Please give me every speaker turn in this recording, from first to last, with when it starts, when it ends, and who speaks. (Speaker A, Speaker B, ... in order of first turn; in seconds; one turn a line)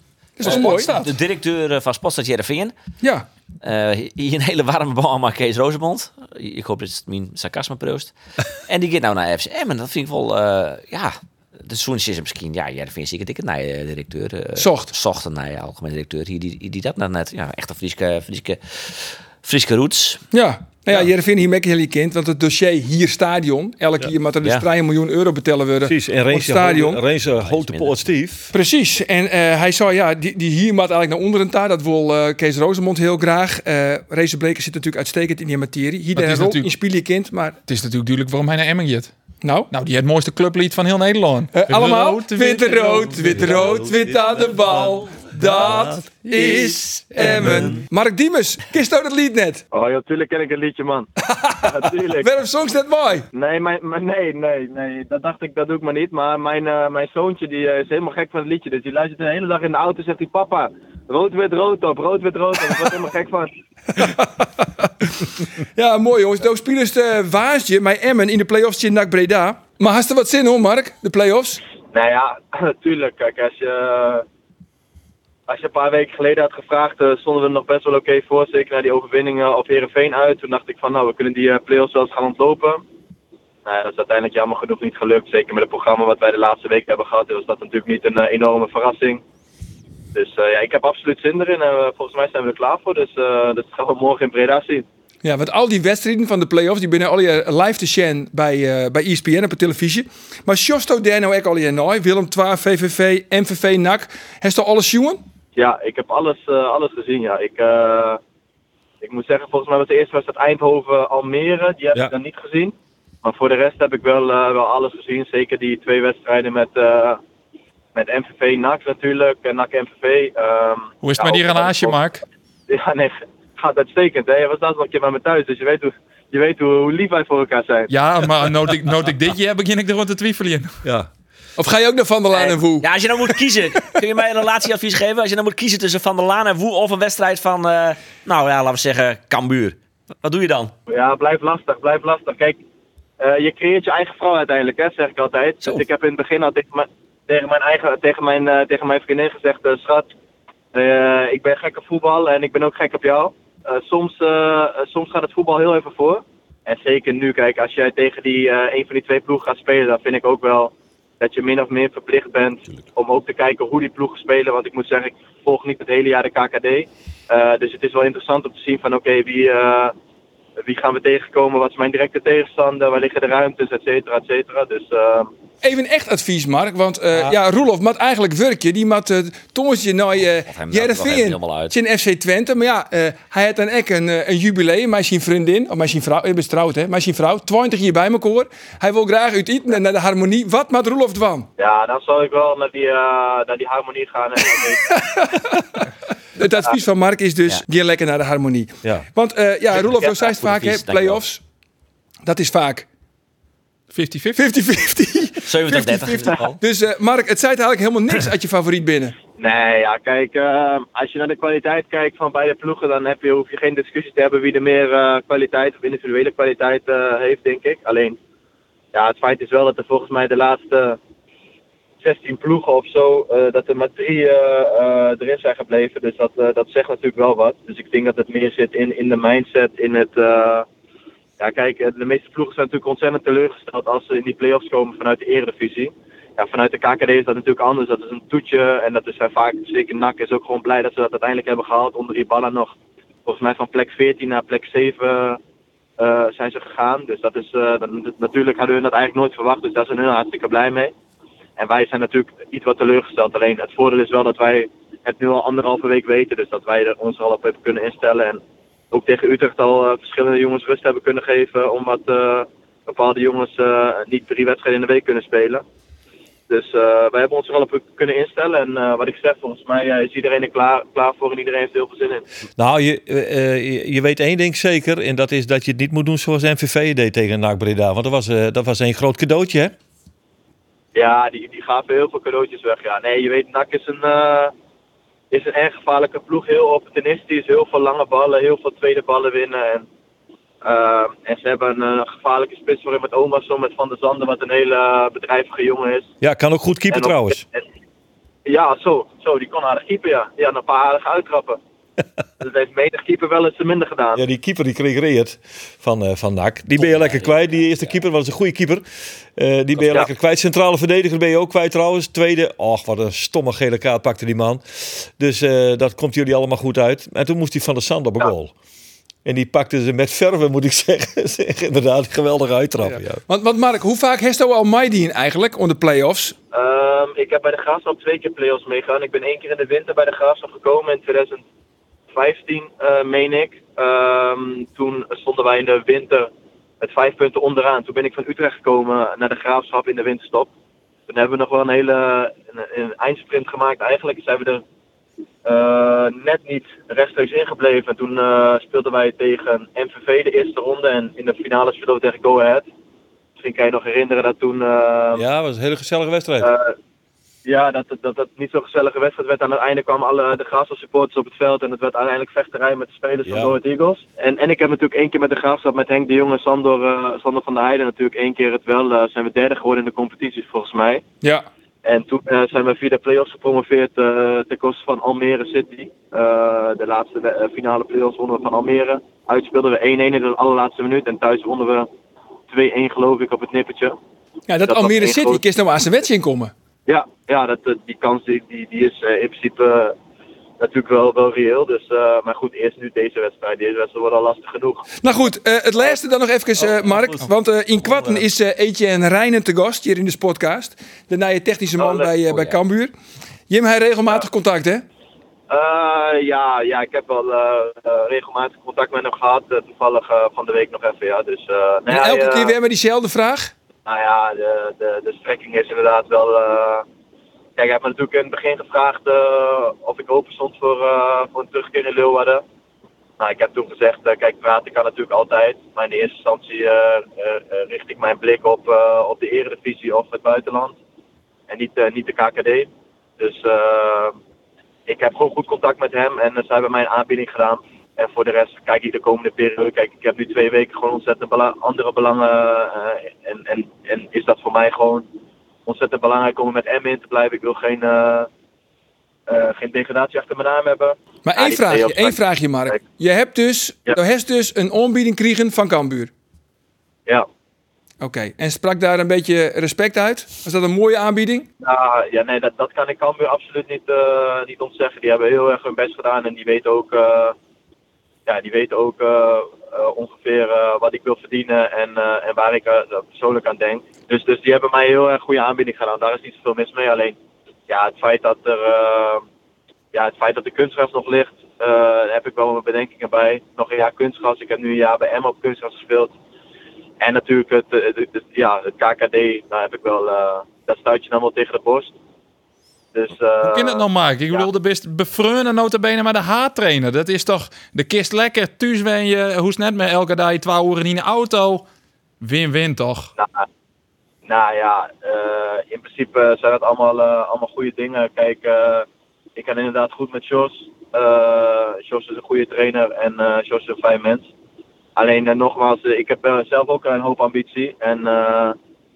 Speaker A: 0.4-1.0
Speaker B: 0.4-2.7
Speaker B: 3.6-8.1
Speaker B: 8.7-20.2
Speaker A: 14.6-14.9
Speaker A: 20.3-27.0
Speaker C: 25.8-28.5
Speaker B: 27.4-28.0
Speaker A: 28.5-37.6
Speaker D: 36.1-36.7
Speaker D: 37.7-39.1
Speaker A: 39.4-39.7
Speaker D: 39.7-43.8
Speaker A: 41.5-49.6
Speaker C: 43.4-44.9
Speaker C: 45.4-46.0
Speaker C: 47.3-47.7
Speaker E: 49.7-51.1
Speaker A: 51.2-53.3
Speaker E: 51.6-52.3
Speaker E: 53.3-63.5
Speaker A: 63.9-71.6
Speaker E: 71.9-74.2
Speaker E: 75.5-82.8
Speaker E: 83.7-89.2
Speaker E: 90.1-94.8
Speaker A: 95.2-105.2
Speaker E: 105.6-108.2
Speaker E: 109.0-117.2
Speaker E: 118.0-122.0
Speaker D: 121.0-122.2
Speaker E: 122.7-127.9
Speaker D: 127.9-130.8
Speaker C: 130.8-131.1
Speaker A: 131.6-132.9
Speaker B: 132.3-140.7
Speaker E: 140.9-142.6
Speaker E: 143.2-150.1
Speaker E: 150.7-169.9
Speaker E: 170.6-175.3
Speaker A: 175.6-191.5
Speaker B: 180.4-181.8
Speaker E: 191.6-194.8
Speaker A: 194.6-201.4
Speaker B: 199.7-201.2
Speaker A: 202.3-202.9
Speaker D: 203.9-204.5
Speaker A: 204.3-209.2
Speaker B: 205.5-206.4
Speaker E: 209.4-218.2
Speaker E: 218.9-221.0
Speaker E: 222.0-230.7
Speaker E: 231.4-242.7
Speaker E: 243.3-245.4
Speaker E: 246.0-250.9
Speaker E: 251.6-265.6
Speaker E: 266.5-272.2
Speaker C: 272.6-279.7
Speaker E: 280.9-284.5
Speaker E: 285.3-289.9
Speaker E: 290.6-296.1
Speaker C: 296.2-297.4
Speaker E: 296.9-297.6
Speaker E: 298.4-301.6
Speaker E: 302.4-304.2
Speaker C: 304.1-308.8
Speaker B: 306.8-308.0
Speaker C: 309.4-318.5
Speaker C: 319.2-323.2
Speaker A: 322.9-326.4
Speaker E: 326.5-331.4
Speaker E: 332.1-336.3
Speaker E: 336.8-340.5
Speaker E: 341.1-344.6
Speaker E: 345.4-352.7
Speaker E: 353.4-355.2
Speaker C: 355.1-356.5
Speaker E: 356.4-356.7
Speaker E: 357.4-371.0
Speaker C: 363.2-363.6
Speaker E: 371.8-381.9
Speaker E: 382.5-383.9
Speaker A: 384.5-386.5
Speaker E: 384.7-385.4
Speaker E: 386.9-389.9
Speaker E: 390.6-394.9
Speaker A: 395.0-402.9
Speaker C: 396.8-397.1
Speaker C: 397.8-398.2
Speaker E: 401.8-402.1
Speaker A: 403.5-404.8
Speaker E: 405.5-412.5
Speaker A: 411.9-413.5
Speaker E: 413.9-416.9
Speaker E: 417.6-422.4
Speaker E: 423.2-430.8
Speaker E: 431.5-434.2
Speaker E: 434.9-445.1
Speaker E: 445.7-448.3
Speaker E: 449.3-452.2
Speaker A: 451.2-456.1
Speaker A: 458.0-461.5
Speaker E: 461.6-467.4
Speaker E: 468.3-477.2
Speaker E: 477.7-479.2
Speaker E: 479.9-486.1
Speaker E: 487.0-491.9
Speaker E: 492.9-494.5
Speaker D: 493.4-501.6
Speaker D: 502.2-503.1
Speaker E: 503.2-503.5
Speaker E: 504.2-514.3
Speaker E: 515.0-518.6